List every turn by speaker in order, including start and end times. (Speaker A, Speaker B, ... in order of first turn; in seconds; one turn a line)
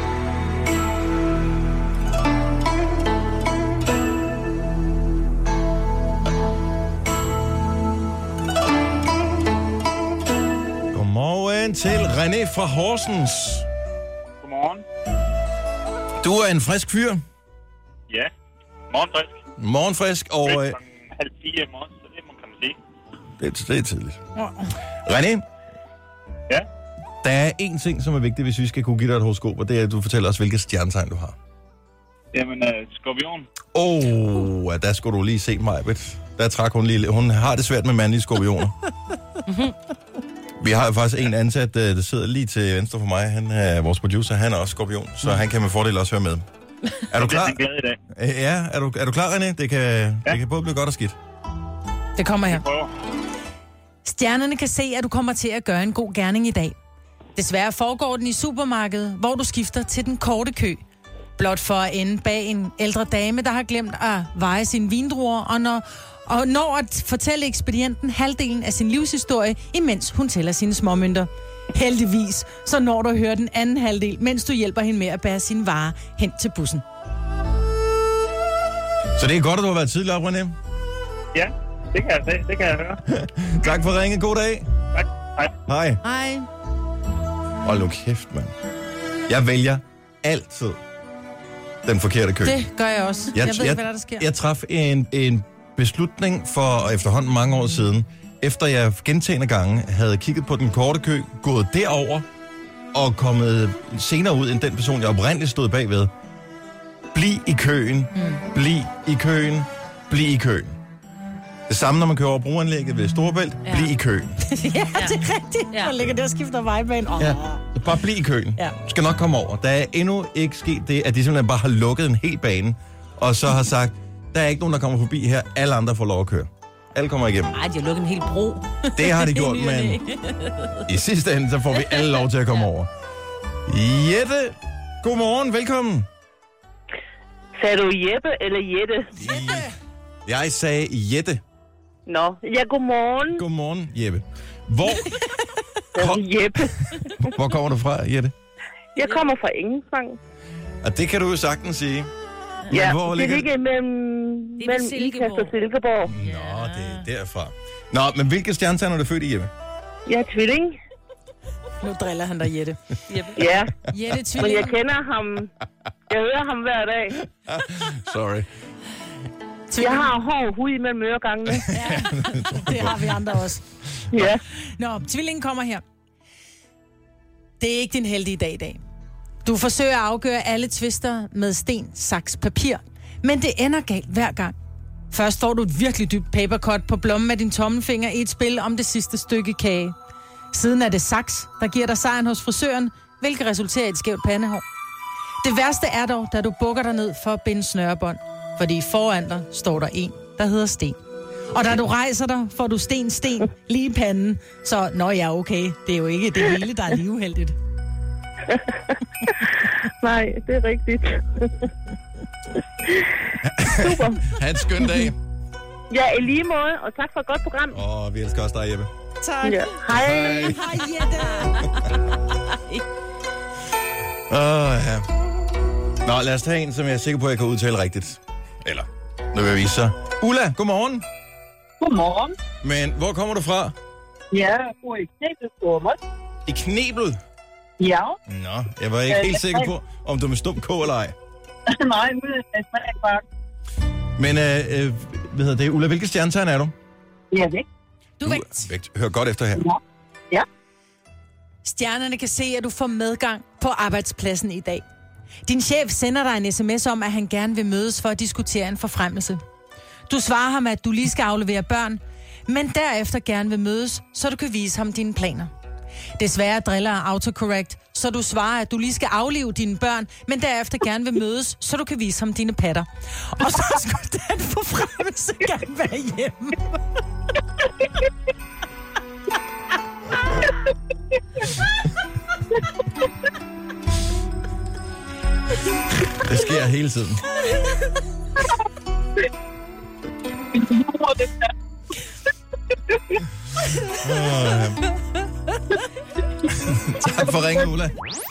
Speaker A: 10.9-13.7
Speaker B: 14.4-14.8
Speaker A: 16.2-17.2
Speaker B: 18.9-19.3
Speaker A: 19.6-20.8
Speaker B: 20.4-22.8
Speaker A: 23.4-24.2
Speaker C: 24.4-24.6
Speaker A: 25.0-25.4
Speaker A: 27.2-31.3
Speaker B: 32.3-33.5
Speaker A: 33.7-38.8
Speaker A: 40.6-46.4
Speaker A: 47.1-47.6
Speaker B: 47.1-48.0
Speaker A: 48.1-51.1
Speaker C: 52.1-52.6
Speaker B: 52.5-52.9
Speaker C: 54.0-56.8
Speaker C: 57.4-60.8
Speaker C: 61.4-76.8
Speaker A: 79.1-80.5
Speaker B: 81.3-83.0
Speaker A: 83.1-84.7
Speaker B: 84.9-85.5
Speaker A: 85.7-86.0
Speaker C: 86.0-86.5
Speaker A: 87.6-88.5
Speaker A: 89.3-90.8
Speaker A: 91.8-92.6
Speaker C: 92.4-94.3
Speaker A: 93.3-102.2
Speaker A: 102.9-106.1
Speaker A: 107.1-110.8
Speaker A: 111.7-114.4
Speaker C: 114.4-117.6
Speaker A: 117.2-127.6
Speaker D: 127.5-130.4
Speaker A: 128.9-130.0
Speaker A: 130.8-132.9
Speaker A: 133.7-136.1
Speaker E: 137.6-139.1
Speaker A: 139.1-139.7
Speaker C: 139.2-139.6
Speaker A: 140.2-141.4
Speaker E: 142.1-143.4
Speaker A: 143.3-145.2
Speaker E: 145.9-146.9
Speaker A: 145.9-146.2
Speaker A: 147.2-148.3
Speaker E: 148.9-150.2
Speaker A: 150.8-152.1
Speaker A: 152.7-153.5
Speaker E: 152.7-156.1
Speaker D: 154.6-155.5
Speaker A: 156.1-159.5
Speaker D: 156.2-157.0
Speaker E: 160.1-160.8
Speaker C: 161.8-162.8
Speaker E: 163.3-163.8
Speaker C: 163.9-164.8
Speaker E: 164.4-165.5
Speaker E: 166.1-167.2
Speaker A: 167.4-168.5
Speaker C: 169.7-170.1
Speaker E: 169.8-171.7
Speaker C: 171.7-173.6
Speaker A: 171.7-172.9
Speaker E: 174.1-174.4
Speaker C: 174.7-175.8
Speaker C: 177.6-178.8
Speaker C: 179.4-184.5
Speaker C: 185.1-189.9
Speaker C: 190.5-194.6
Speaker C: 195.4-201.0
Speaker C: 201.5-207.6
Speaker E: 209.3-211.7
Speaker E: 212.8-213.1
Speaker A: 213.4-215.2
Speaker E: 213.7-214.3
Speaker E: 215.9-217.8
Speaker A: 217.7-218.9
Speaker C: 219.2-221.7
Speaker E: 219.4-220.6
Speaker A: 219.9-220.6
Speaker A: 224.3-225.0
Speaker A: 226.0-231.0
Speaker F: 231.8-232.3
Speaker A: 232.6-233.7
Speaker F: 234.3-236.0
Speaker A: 236.4-237.2
Speaker F: 237.8-238.2
Speaker A: 238.3-241.1
Speaker F: 239.1-239.7
Speaker F: 241.7-243.2
Speaker A: 244.2-246.7
Speaker F: 247.3-247.7
Speaker C: 248.2-248.7
Speaker A: 248.2-249.6
Speaker C: 251.6-254.8
Speaker C: 255.5-259.4
Speaker C: 260.1-265.5
Speaker C: 266.2-276.8
Speaker A: 286.1-287.3
Speaker F: 290.5-291.5
Speaker F: 292.7-293.2
Speaker A: 293.9-294.9
Speaker A: 296.5-297.9